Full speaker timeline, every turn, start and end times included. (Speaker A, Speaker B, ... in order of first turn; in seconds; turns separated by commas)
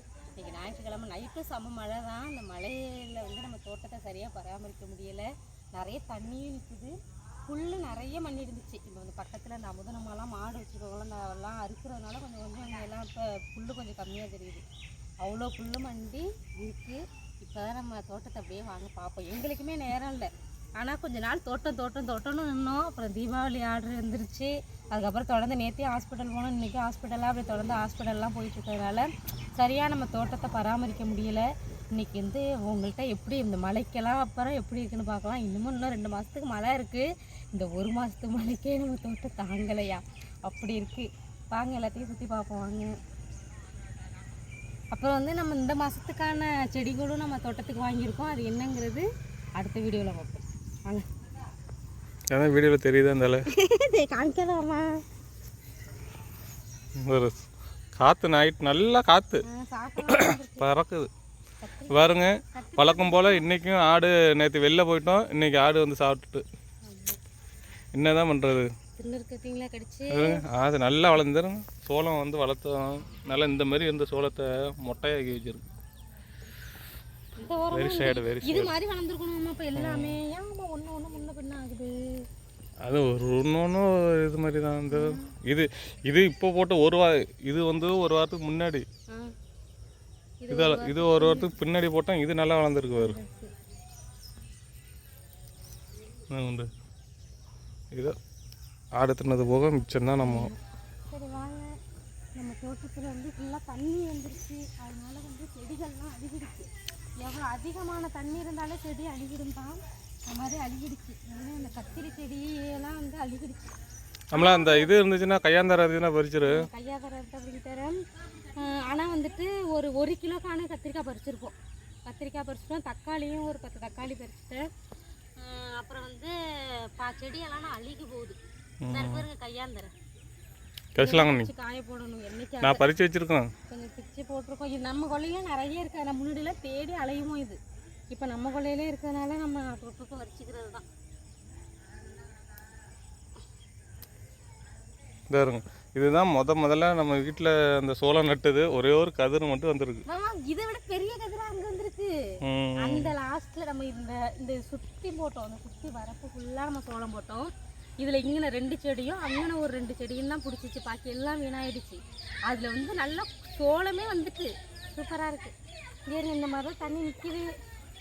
Speaker A: 0.3-6.9, Speaker A: 7.5-14.6, Speaker A: 15.2-42.9, Speaker A: 44.9-51.1, Speaker B: 52.3-53.5, Speaker A: 53.5-55.0, Speaker B: 57.0-59.4, Speaker A: 59.5-60.7, Speaker B: 60.1-61.1, Speaker A: 61.6-63.4, Speaker B: 61.9-66.4, Speaker A: 66.8-67.2, Speaker B: 67.9-68.7, Speaker A: 69.0-70.4, Speaker B: 70.1-75.6, Speaker A: 77.4-82.3, Speaker B: 77.7-78.7, Speaker B: 79.7-80.2, Speaker B: 82.8-88.8, Speaker A: 84.9-85.3, Speaker A: 90.4-91.6, Speaker B: 90.5-93.2, Speaker A: 92.9-93.5, Speaker B: 96.3-96.7, Speaker B: 99.0-100.5, Speaker A: 100.2-100.6, Speaker A: 101.1-101.7, Speaker A: 102.3-113.7, Speaker A: 114.3-114.9, Speaker B: 114.3-116.7, Speaker A: 116.4-118.0, Speaker A: 118.5-121.5, Speaker A: 122.0-124.7, Speaker A: 125.4-128.4, Speaker B: 128.8-129.2, Speaker A: 128.9-129.9, Speaker B: 130.9-131.5, Speaker A: 131.0-132.8, Speaker B: 132.6-133.5, Speaker A: 133.7-137.6, Speaker A: 138.1-140.8, Speaker B: 145.3-150.0, Speaker A: 150.1-165.5, Speaker B: 152.4-153.1, Speaker A: 166.1-167.5